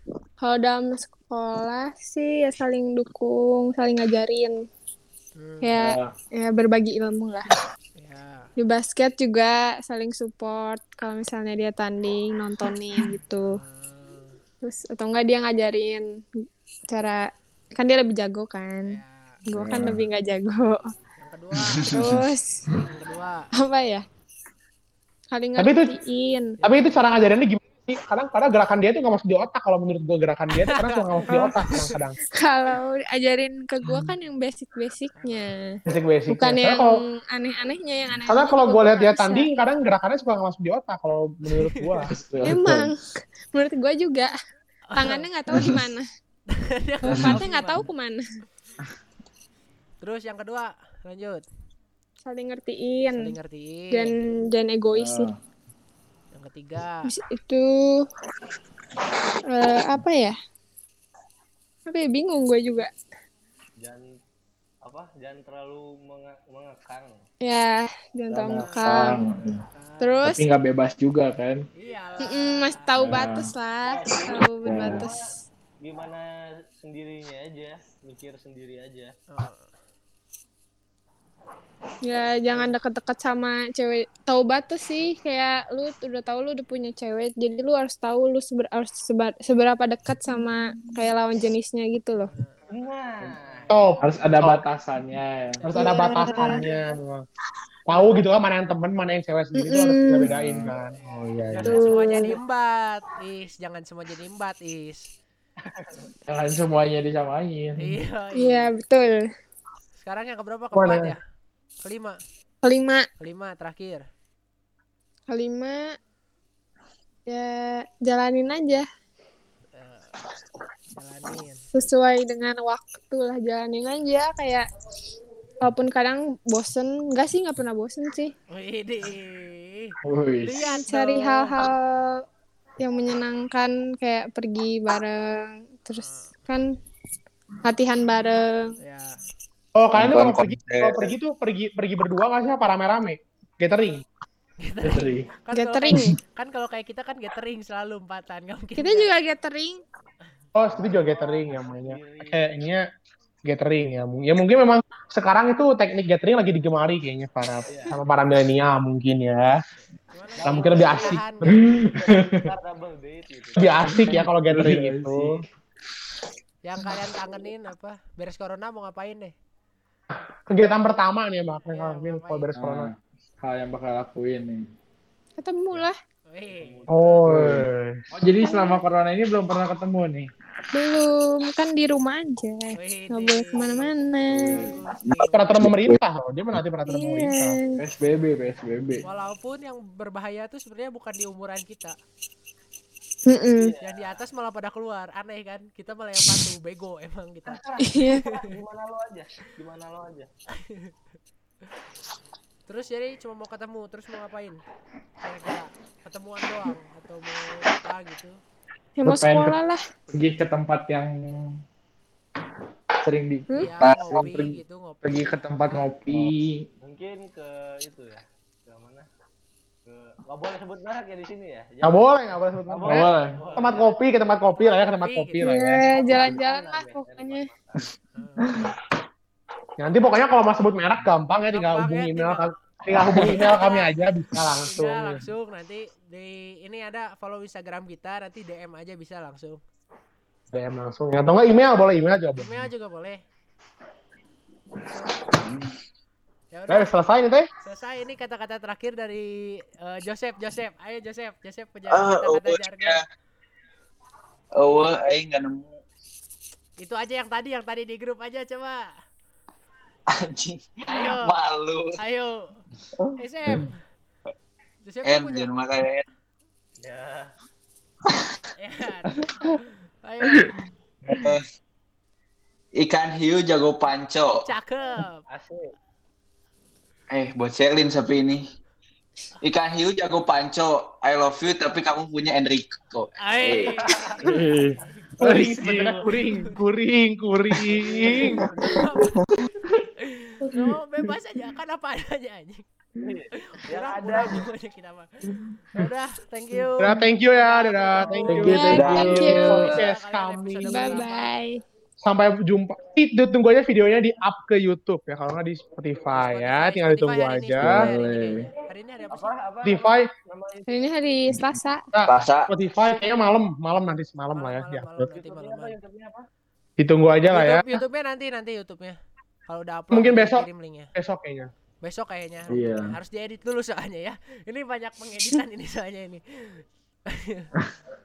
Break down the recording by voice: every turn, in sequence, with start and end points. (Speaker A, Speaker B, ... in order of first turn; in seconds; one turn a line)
Speaker A: 0.4-4.5
Speaker B: 5.4-5.8
Speaker A: 5.6-7.5
Speaker C: 5.8-6.1
Speaker B: 8.0-8.4
Speaker A: 8.6-13.5
Speaker B: 13.4-14.4
Speaker A: 14.6-16.1
Speaker A: 16.9-17.3
Speaker A: 17.8-20.8
Speaker B: 18.9-19.4
Speaker B: 21.2-22.0
Speaker D: 21.6-22.1
Speaker A: 21.9-22.6
Speaker B: 22.7-23.5
Speaker A: 23.6-24.1
Speaker A: 25.3-26.6
Speaker E: 25.6-25.9
Speaker B: 26.6-27.1
Speaker E: 26.6-32.2
Speaker B: 30.6-32.0
Speaker A: 31.3-31.7
Speaker A: 32.4-35.7
Speaker B: 35.1-35.5
Speaker E: 35.9-37.0
Speaker A: 36.3-39.5
Speaker E: 38.3-42.1
Speaker B: 41.5-42.0
Speaker C: 42.1-42.9
Speaker A: 42.4-43.0
Speaker A: 43.5-44.3
Speaker B: 44.9-45.3
Speaker A: 45.0-46.0
Speaker B: 46.5-47.9
Speaker A: 47.0-48.2
Speaker B: 50.0-51.4
Speaker A: 52.2-53.2
Speaker B: 53.1-54.1
Speaker A: 53.9-55.3
Speaker C: 54.9-55.4
Speaker B: 56.3-57.1
Speaker A: 57.0-58.1
Speaker A: 59.5-60.3
Speaker A: 61.9-62.9
Speaker F: 64.9-67.1
Speaker A: 67.4-69.1
Speaker C: 68.3-69.6
Speaker B: 68.5-70.2
Speaker A: 70.0-70.5
Speaker C: 70.2-71.6
Speaker B: 71.8-72.9
Speaker A: 72.2-75.2
Speaker C: 73.0-73.5
Speaker F: 73.9-75.2
Speaker C: 74.6-75.1
Speaker F: 75.8-76.2
Speaker F: 76.8-79.1
Speaker B: 79.3-79.7
Speaker A: 82.0-92.3
Speaker B: 92.3-92.7
Speaker F: 92.7-94.0
Speaker B: 93.3-93.9
Speaker E: 93.7-94.6
Speaker C: 94.0-95.6
Speaker E: 95.6-97.2
Speaker B: 95.6-96.6
Speaker A: 95.8-96.6
Speaker E: 97.9-101.9
Speaker A: 99.6-100.3
Speaker C: 100.3-100.7
Speaker B: 100.9-105.1
Speaker A: 101.6-102.3
Speaker F: 105.7-105.9
Speaker C: 106.3-108.0
Speaker B: 107.8-108.7
Speaker A: 108.4-109.2
Speaker B: 110.0-111.2
Speaker E: 110.7-111.1
Speaker B: 111.8-112.2
Speaker A: 112.6-113.1
Speaker B: 113.2-114.0
Speaker A: 115.3-115.8
Speaker A: 117.3-118.8
Speaker B: 119.7-120.2
Speaker B: 120.9-121.6
Speaker A: 121.7-124.7
Speaker A: 125.6-128.3
Speaker B: 128.5-131.7
Speaker C: 130.1-130.6
Speaker A: 130.6-132.2
Speaker A: 132.8-136.7
Speaker B: 135.9-136.3
Speaker A: 137.6-138.7
Speaker B: 138.8-139.1
Speaker E: 139.8-144.0
Speaker D: 139.9-141.1
Speaker B: 144.6-149.1
Speaker C: 144.8-145.3
Speaker A: 145.5-146.2
Speaker A: 148.8-149.8
Speaker E: 150.6-152.8
Speaker F: 150.7-152.4
Speaker E: 153.4-159.5
Speaker F: 157.7-157.9
Speaker B: 160.0-161.8
Speaker F: 160.4-164.0
Speaker E: 160.4-161.2
Speaker C: 161.5-162.5
Speaker E: 163.6-165.3
Speaker C: 163.9-165.4
Speaker B: 166.6-169.3
Speaker E: 170.1-172.9
Speaker B: 171.7-172.5
Speaker C: 172.6-174.6
Speaker A: 175.4-175.9
Speaker B: 176.3-176.8
Speaker F: 176.5-177.3
Speaker E: 176.9-177.9
Speaker C: 177.3-180.3
Speaker A: 178.4-178.8
Speaker A: 180.7-184.7
Speaker B: 182.7-185.5
Speaker C: 184.3-184.7
Speaker D: 185.1-185.9
Speaker E: 185.2-187.6
Speaker A: 186.9-187.7
Speaker C: 187.7-189.0
Speaker B: 189.0-191.9
Speaker A: 193.3-193.7
Speaker F: 193.6-194.2
Speaker B: 193.8-198.4
Speaker F: 197.5-200.3
Speaker A: 197.8-198.3
Speaker B: 200.6-200.9
Speaker B: 202.7-204.6
Speaker B: 205.2-208.4
Speaker A: 209.0-209.8
Speaker C: 209.1-209.6
Speaker C: 210.1-211.6
Speaker C: 213.0-216.6
Speaker B: 213.6-215.9
Speaker F: 216.8-219.1
Speaker F: 219.9-224.1
Speaker E: 221.8-225.8
Speaker C: 222.9-223.4
Speaker B: 223.4-223.7
Speaker B: 225.0-225.4
Speaker A: 225.4-227.5
Speaker F: 225.9-227.9
Speaker B: 228.1-228.6
Speaker E: 229.8-235.2
Speaker B: 231.5-232.5
Speaker B: 233.1-233.9
Speaker C: 233.1-233.5
Speaker B: 234.7-239.6
Speaker E: 240.5-242.6
Speaker B: 242.4-243.2
Speaker D: 245.3-245.7
Speaker B: 246.5-246.9
Speaker E: 246.7-247.5
Speaker B: 247.6-253.0
Speaker D: 251.9-253.0
Speaker D: 254.6-255.7
Speaker B: 256.8-258.9
Speaker D: 260.1-261.9
Speaker B: 260.9-261.3
Speaker B: 262.0-262.5
Speaker B: 263.2-263.8
Speaker B: 264.9-265.5
Speaker D: 265.1-266.0
Speaker F: 266.8-267.3
Speaker B: 268.6-269.2
Speaker B: 270.0-270.5
Speaker D: 271.2-271.4
Speaker D: 272.7-274.4
Speaker B: 274.4-275.2
Speaker F: 275.3-275.7
Speaker D: 277.1-278.4
Speaker D: 279.4-283.9
Speaker B: 283.2-284.5
Speaker F: 283.8-284.3
Speaker C: 284.2-286.1
Speaker E: 285.2-288.4
Speaker B: 285.7-286.6
Speaker F: 287.7-288.8
Speaker B: 288.6-292.6
Speaker D: 289.0-289.3
Speaker F: 293.0-294.4
Speaker B: 293.4-295.1
Speaker B: 295.7-301.3
Speaker E: 296.8-301.0
Speaker C: 298.3-299.4
Speaker A: 298.5-299.8
Speaker D: 298.7-299.3
Speaker A: 300.7-301.6
Speaker E: 302.0-307.9
Speaker B: 306.1-309.3
Speaker C: 307.6-308.5
Speaker F: 309.1-310.9
Speaker E: 309.6-310.1
Speaker A: 310.7-311.9
Speaker E: 311.9-315.1
Speaker D: 312.1-312.5
Speaker B: 314.3-315.8
Speaker F: 315.1-316.2
Speaker E: 316.8-317.8
Speaker B: 317.3-318.9
Speaker B: 319.5-320.9
Speaker E: 319.9-321.5
Speaker B: 321.8-327.5
Speaker C: 322.5-323.0